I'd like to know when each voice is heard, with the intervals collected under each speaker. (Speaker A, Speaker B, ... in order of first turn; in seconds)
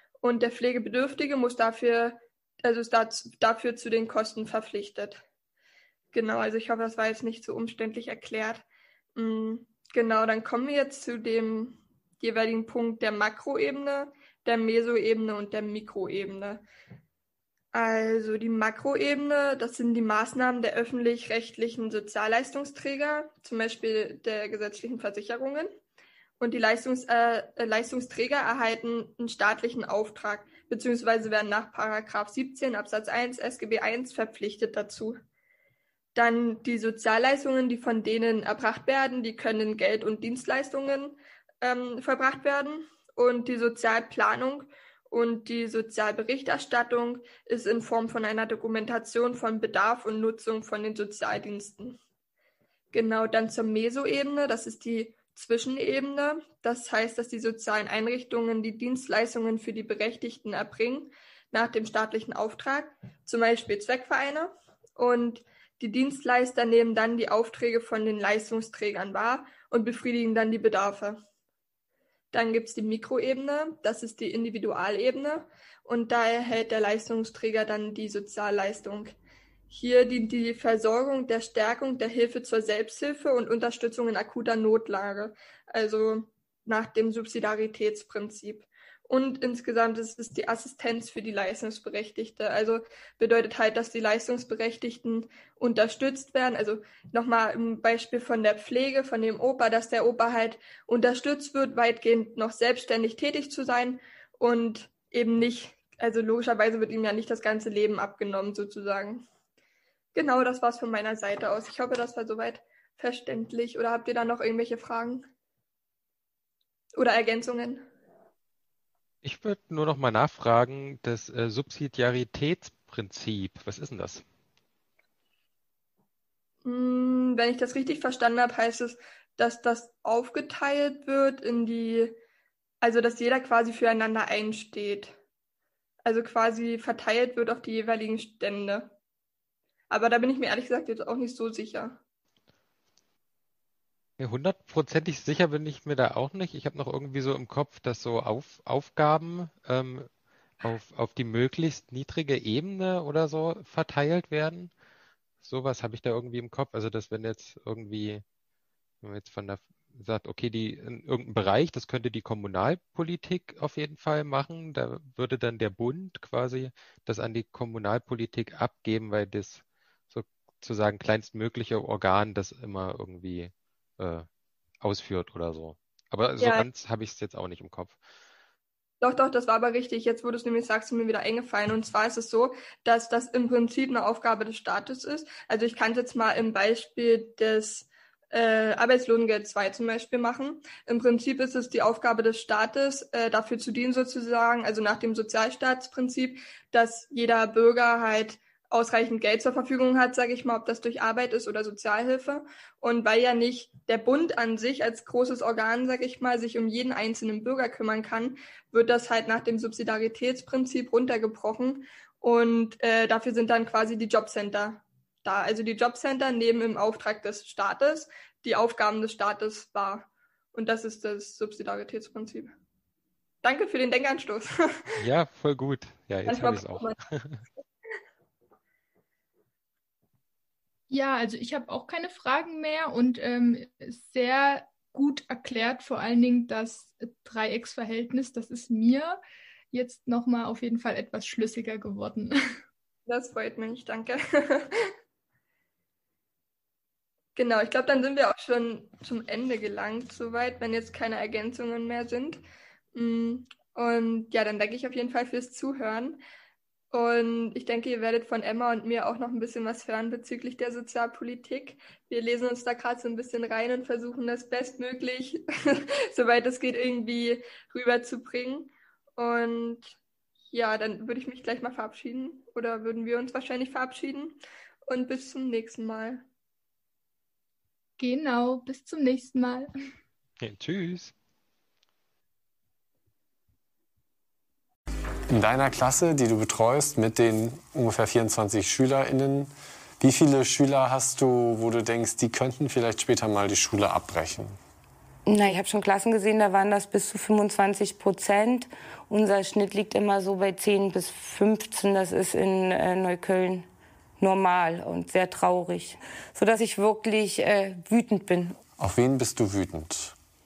Speaker A: 0.2-5.2, 6.1-8.6, 9.2-16.6, 17.7-25.7, 26.4-35.1, 36.1-52.0, 52.9-71.2, 72.3-79.1, 79.7-109.2, 110.1-115.2, 117.0-117.9, 126.6-132.2, 132.8-135.2, 136.0-138.9, 139.9-142.0, 176.4-176.7, 179.0-222.5, 223.4-224.8, 226.2-226.9, 243.1-244.7, 247.3-252.4, 252.9-256.2, 256.9-265.4, 266.1-270.0, 270.5-274.4, 274.9-276.2
Speaker B: 119.2-124.2, 144.2-150.1, 150.6-154.7, 155.4-158.2, 159.0-174.3, 174.8-178.0, 225.0-227.4, 280.4-281.1
Speaker C: 230.9-239.2, 239.7-242.4, 278.0-279.7
Speaker D: 285.3-294.6, 308.8-310.1
Speaker E: 295.3-303.6, 304.2-308.6